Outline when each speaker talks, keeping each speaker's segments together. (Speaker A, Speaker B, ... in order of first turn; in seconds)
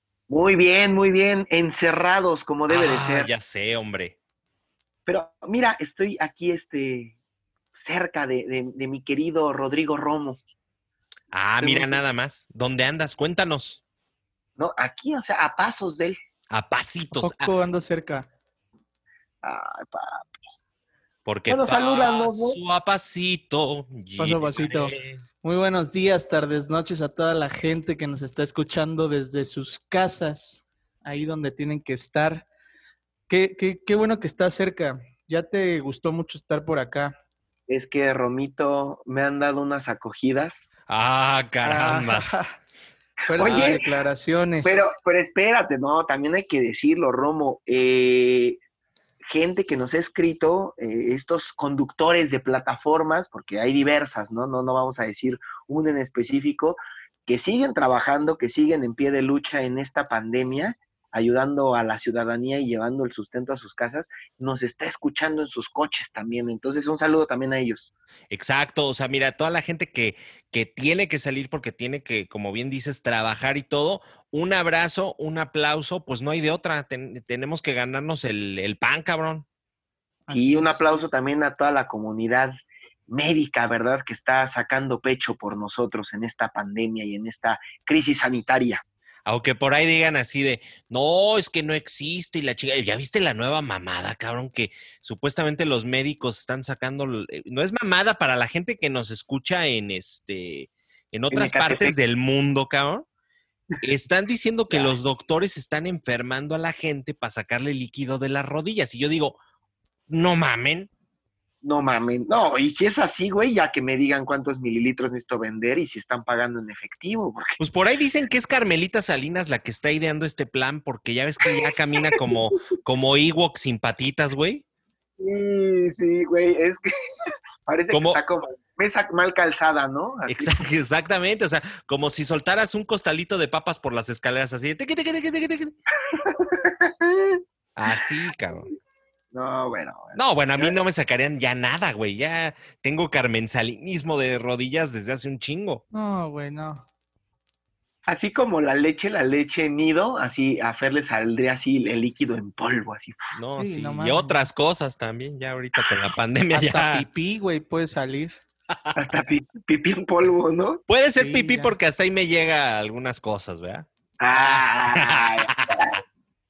Speaker A: 0.3-3.3, 5.1-7.2, 7.8-10.4, 11.6-12.0, 14.6-16.2, 19.4-20.3, 21.5-22.6, 37.7-40.7, 43.4-43.8, 44.6-48.6, 49.3-67.9, 80.3-82.5, 83.1-88.8, 101.3-101.9, 104.7-105.0, 111.6-117.6, 121.5-122.2, 125.2-126.9, 127.7-130.6, 136.1-137.4, 139.3-140.8, 148.1-153.2, 159.0-160.8, 164.2-166.0
Speaker B: 2.7-4.2, 11.3-13.8, 16.5-17.5, 21.2-25.2, 40.9-42.3, 68.3-79.5, 89.3-103.1, 103.8-109.4, 110.1-110.9, 117.6-124.6, 127.9-128.2, 130.3-135.7, 137.8-138.7, 140.2-145.8, 153.4-157.1, 160.9-165.9
Speaker C: 17.1-18.3, 24.2-32.5, 33.3-37.1, 41.6-42.5, 43.3-44.9, 80.3-81.0, 145.9-146.8, 153.6-154.3, 156.5-158.4, 161.2-161.8